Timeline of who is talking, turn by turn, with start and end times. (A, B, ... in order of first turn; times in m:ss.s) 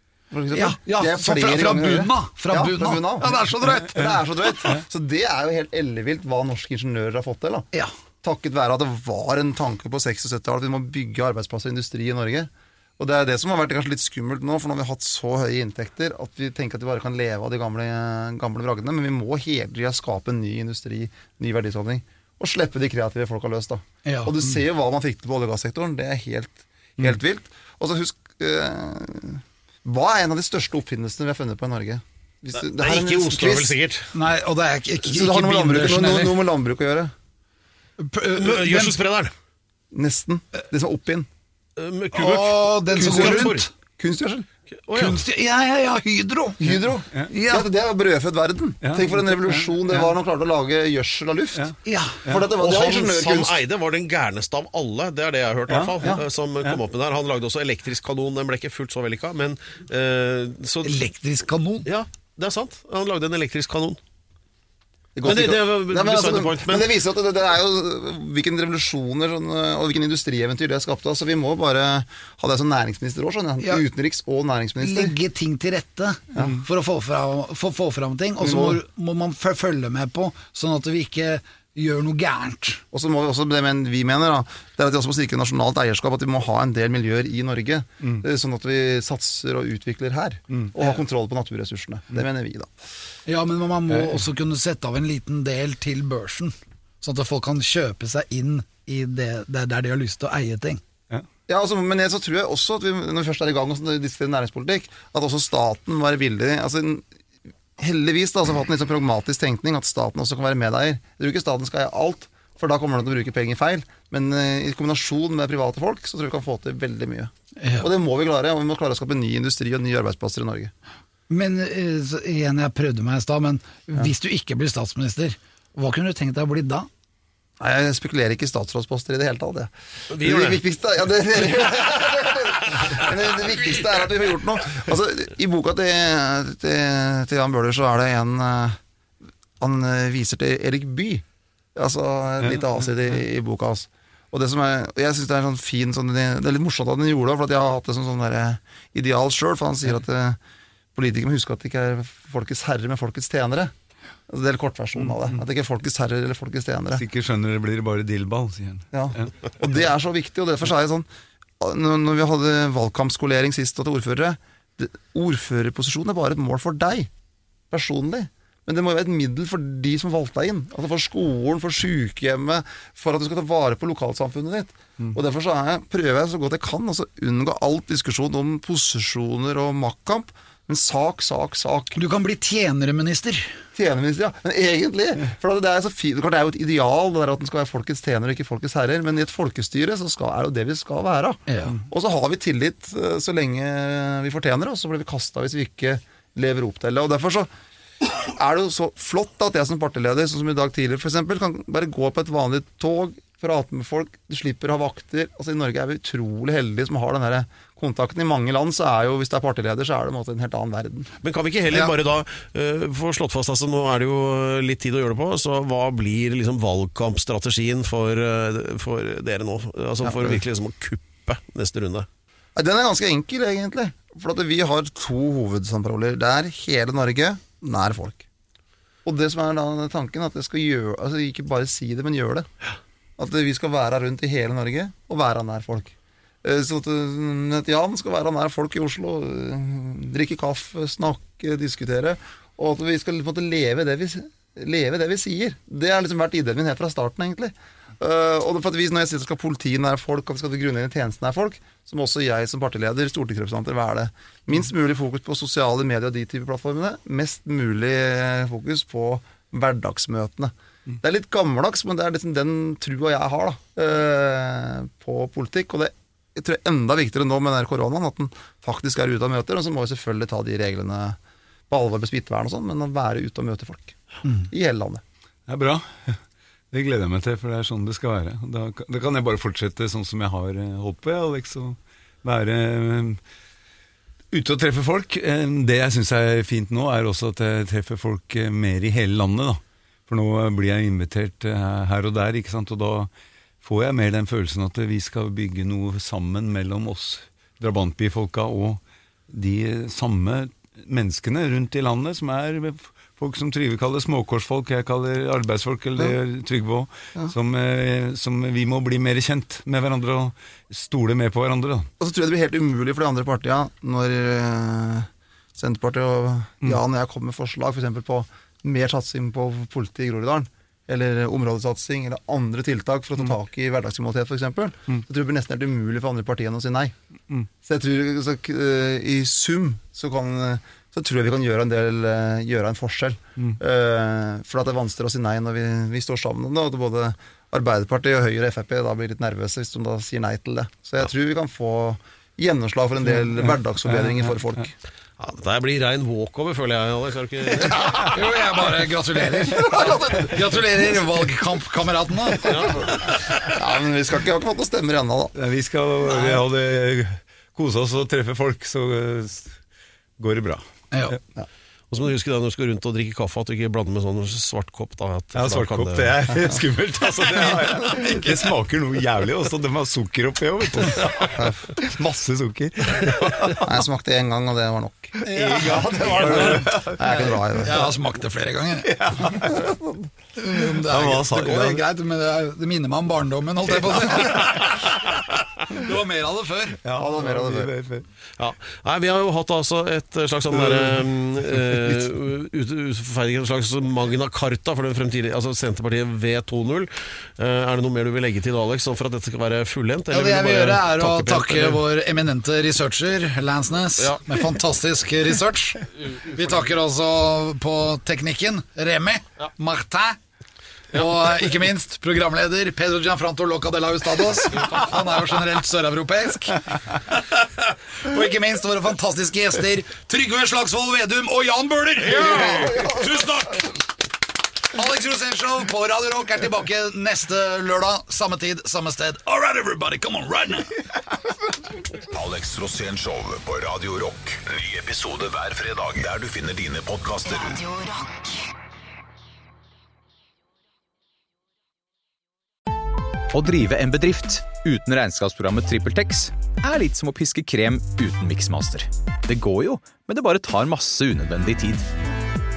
0:00.3-0:07.7 A
0:00.5-0:04.2 B
0:03.9-0:04.8 C
0:08.2-0:33.8 A
0:24.0-0:24.5 B
0:32.5-0:34.1 D
0:34.1-0:36.4 B
0:35.0-0:37.1 A
0:38.0-0:39.0 B
0:38.3-0:39.3 D
0:39.9-0:41.3 A
0:41.8-0:43.6 D
0:42.1-0:43.7 B
0:42.9-0:44.5 A
0:44.8-0:45.2 D
0:44.9-0:47.7 B
0:46.6-0:51.7 A
0:48.8-0:49.7 C
0:51.8-0:52.3 B
0:52.2-0:53.6 A
0:52.5-1:01.0 D
0:55.7-0:56.0 C
1:00.8-1:01.9 B
1:01.8-1:04.0 D
1:05.2-1:15.1 A
1:05.2-1:06.9 D
1:14.8-1:22.8 B
1:18.4-1:18.8 A
1:22.9-1:32.7 A
1:33.3-1:40.8 B
1:41.5-1:47.0 A
1:47.8-2:00.7 A
1:57.6-1:57.9 B
2:01.3-2:06.9 B
2:07.6-2:18.8 A
2:10.1-2:10.6 D
2:19.6-2:21.2 A
2:21.7-2:30.4 A
2:22.4-2:22.8 C
2:30.9-2:33.7 A
2:34.3-2:37.0 A
2:35.0-2:35.4 C
2:36.9-2:39.3 C
2:38.9-2:41.1 A
2:41.6-2:47.1 A
2:47.7-3:02.0 A
3:01.9-3:03.6 B
3:03.7-3:17.5 A
3:11.5-3:11.8 B
3:18.0-3:31.1 A
3:31.2-3:42.1 D
3:40.0-3:40.4 A
3:42.6-3:48.2 A
3:49.0-3:52.5 A
3:53.2-4:31.2 A
4:31.7-4:35.0 A
4:35.5-4:36.2 C
4:36.7-4:43.2 C
4:44.3-4:53.1 C
4:53.6-5:11.9 C
5:12.0-5:26.9 A
5:27.6-5:44.7 A
5:43.0-5:44.6 C
5:45.2-5:47.9 D
5:48.0-5:53.1 B
5:49.4-5:50.6 A
5:52.4-5:53.1 D
5:53.5-5:55.3 A
5:55.3-5:59.6 C
5:56.1-5:56.4 B
6:00.2-6:01.1 C
6:00.9-6:01.2 B
6:01.9-6:06.2 D
6:05.3-6:13.8 C
6:11.3-6:11.7 A
6:13.6-6:17.9 A
6:15.2-6:19.5 B
6:15.3-6:17.1 C
6:18.8-6:19.7 C
6:19.5-6:20.0 A
6:20.4-6:25.1 B
6:20.5-6:21.8 C
6:25.7-6:26.8 B
6:26.8-6:28.0 C
6:26.9-6:27.7 A
6:28.4-6:41.8 D
6:30.5-6:32.0 C
6:40.1-6:50.2 B
6:46.1-6:46.4 D
6:50.9-7:03.8 B
7:02.2-7:03.0 A
7:04.7-7:10.8 B
7:12.1-7:18.0 E
7:23.3-7:31.8 F